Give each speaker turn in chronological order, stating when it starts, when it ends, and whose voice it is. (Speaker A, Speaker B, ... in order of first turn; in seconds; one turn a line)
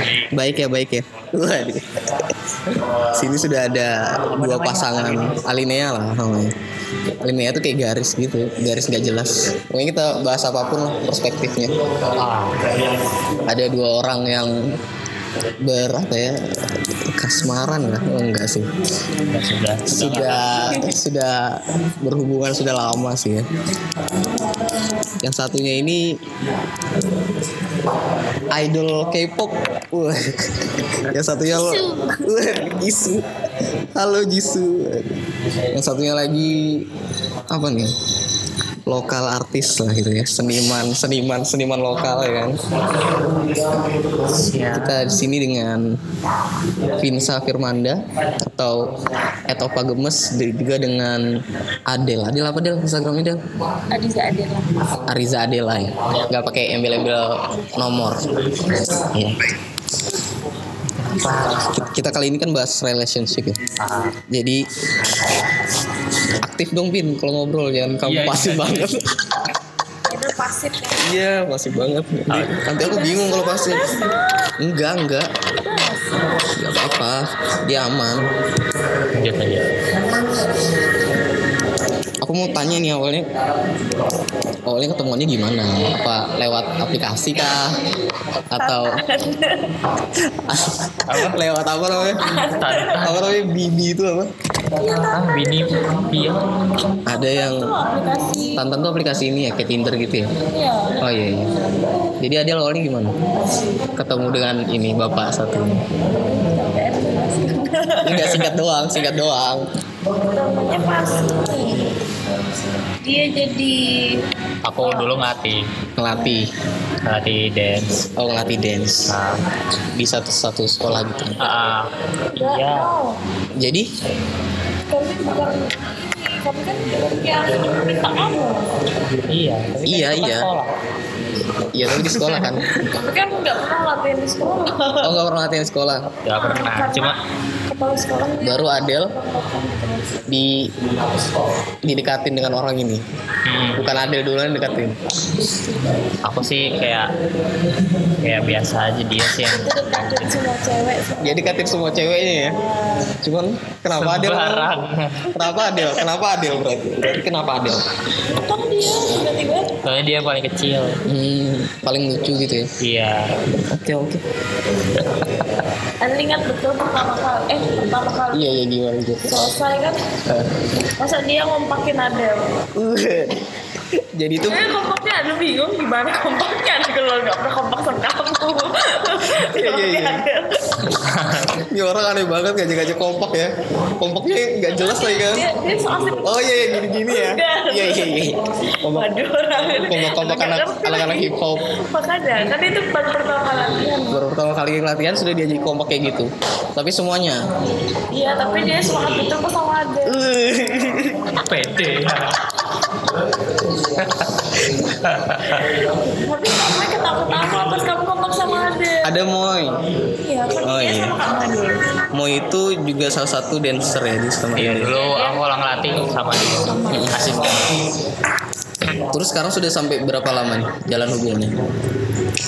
Speaker A: 0.3-6.5
Speaker A: 7.2-12.1
Speaker B: 12.2-12.7
Speaker A: 13.5-14.8
Speaker A: 15.6-18.7
Speaker B: 19.3-20.5
Speaker A: 19.9-23.5
Speaker A: 25.2-26.2
Speaker A: 28.5-33.3
Speaker C: 31.5-32.3
Speaker A: 34.0-36.9
Speaker A: 37.5-37.9
Speaker A: 38.9-42.6
Speaker B: 44.3-45.0
Speaker A: 44.6-46.0
Speaker A: 47.0-48.9
Speaker A: 49.5-51.2
Speaker A: 51.9-53.4
Speaker C: 53.9-54.7
Speaker A: 55.1-59.6
Speaker B: 61.0-61.6
Speaker A: 61.5-63.6
Speaker B: 63.8-64.2
Speaker A: 64.3-64.7
Speaker A: 66.4-69.5
Speaker B: 68.0-69.0
Speaker C: 70.1-71.1
Speaker A: 71.0-74.0
Speaker B: 72.3-72.7
Speaker C: 72.8-74.5
Speaker A: 74.6-75.3
Speaker C: 75.6-76.2
Speaker A: 76.6-78.3
Speaker B: 79.1-79.7
Speaker A: 82.2-83.3
Speaker A: 84.7-87.8
Speaker A: 88.5-89.0
Speaker C: 88.6-89.8
Speaker A: 90.2-92.2
Speaker B: 91.1-91.4
Speaker C: 92.1-93.1
Speaker B: 92.3-93.2
Speaker A: 93.0-94.3
Speaker C: 94.7-96.3
Speaker B: 95.1-96.5
Speaker C: 96.9-98.6
Speaker A: 97.0-97.8
Speaker A: 98.6-100.3
Speaker C: 100.4-101.1
Speaker A: 101.0-101.5
Speaker A: 102.2-103.2
Speaker A: 104.0-105.8
Speaker C: 106.1-108.3
Speaker A: 108.0-109.7
Speaker B: 108.2-108.5
Speaker C: 110.2-111.9
Speaker C: 113.0-114.2
Speaker B: 114.7-115.7
Speaker C: 114.8-115.1
Speaker A: 116.0-116.5
Speaker B: 117.0-118.0
Speaker A: 118.2-119.1
Speaker B: 119.1-119.4
Speaker A: 120.0-121.4
Speaker B: 121.4-122.9
Speaker C: 122.4-123.2
Speaker A: 123.6-123.9
Speaker C: 124.9-128.8
Speaker B: 129.3-130.7
Speaker A: 129.9-130.5
Speaker A: 131.7-132.7
Speaker B: 132.1-132.4
Speaker C: 132.8-135.2
Speaker A: 135.0-136.1
Speaker B: 136.2-137.2
Speaker C: 136.4-137.1
Speaker C: 137.7-140.2
Speaker A: 138.4-139.1
Speaker A: 140.3-140.7
Speaker A: 141.8-143.0
Speaker B: 143.5-143.9
Speaker A: 143.8-145.0
Speaker B: 146.2-147.1
Speaker B: 148.2-149.7
Speaker C: 149.5-151.2
Speaker A: 151.2-152.6
Speaker C: 152.3-153.2
Speaker A: 153.2-154.7
Speaker B: 154.0-155.3
Speaker C: 155.3-156.1
Speaker A: 155.3-157.8
Speaker C: 158.4-159.7
Speaker B: 159.8-161.0
Speaker A: 161.1-162.7
Speaker B: 162.8-163.3
Speaker A: 163.7-164.2
Speaker B: 165.0-165.6
Speaker C: 166.0-168.5
Speaker A: 168.3-169.3
Speaker C: 169.2-170.0
Speaker C: 171.0-172.4
Speaker A: 172.8-173.4
Speaker A: 174.0-174.7
Speaker C: 174.4-180.7
Speaker A: 179.3-180.2
Speaker B: 180.8-181.6
Speaker A: 181.6-185.5
Speaker C: 184.7-194.2
Speaker A: 186.2-189.1
Speaker A: 189.9-191.6
Speaker A: 194.1-197.4
Speaker C: 198.1-200.3
Speaker A: 200.1-201.4
Speaker B: 201.4-202.4
Speaker B: 203.9-205.7
Speaker C: 206.1-209.1
Speaker A: 209.0-209.8
Speaker C: 210.2-211.8
Speaker A: 210.6-211.2
Speaker A: 212.1-214.9
Speaker B: 214.6-217.7
Speaker C: 214.9-215.4
Speaker C: 216.7-217.2
Speaker A: 216.9-217.6
Speaker A: 218.9-221.6